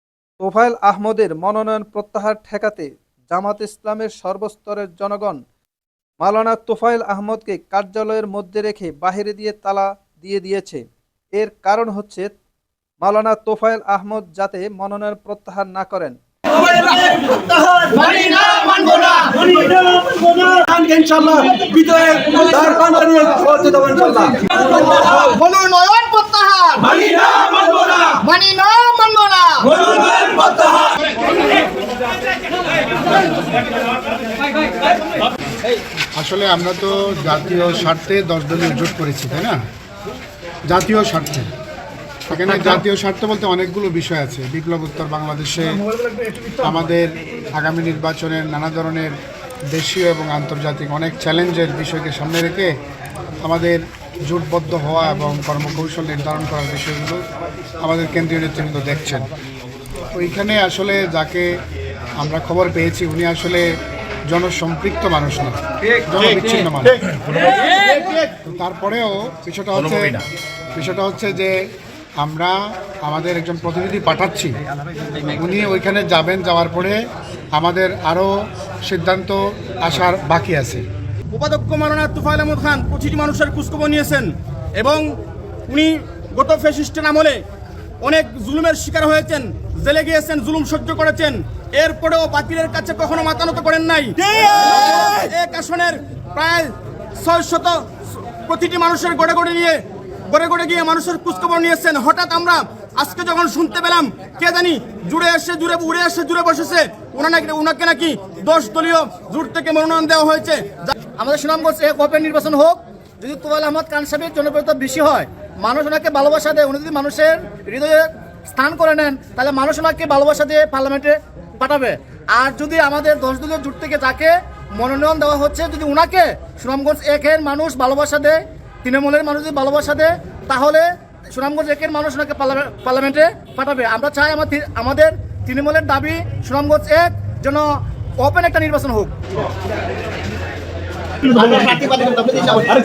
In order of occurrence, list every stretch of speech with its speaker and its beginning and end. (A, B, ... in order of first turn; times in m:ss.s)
0:00.4-0:05.4 A
0:06.2-0:10.8 A
0:11.3-0:12.3 A
0:13.0-0:16.2 A
0:16.6-0:19.7 B
0:19.9-0:24.2 C
0:24.5-0:30.1 B
0:30.1-0:30.9 C
0:36.2-0:39.6 D
0:40.7-0:41.5 D
0:42.3-0:49.1 D
0:49.7-0:52.7 D
0:53.4-0:57.2 D
0:57.8-0:59.3 D
1:00.1-1:01.5 D
1:02.2-1:03.7 D
1:04.3-1:07.0 D
1:08.4-1:10.2 D
1:10.7-1:11.6 D
1:12.2-1:14.6 D
1:15.2-1:17.0 D
1:17.5-1:18.3 D
1:18.8-1:20.8 D
1:21.3-1:25.0 E
1:25.7-1:27.4 E
1:28.0-1:37.8 E
1:38.5-1:50.8 E
1:50.8-2:17.6 B
2:18.2-2:19.1 B
2:21.4-2:22.6 B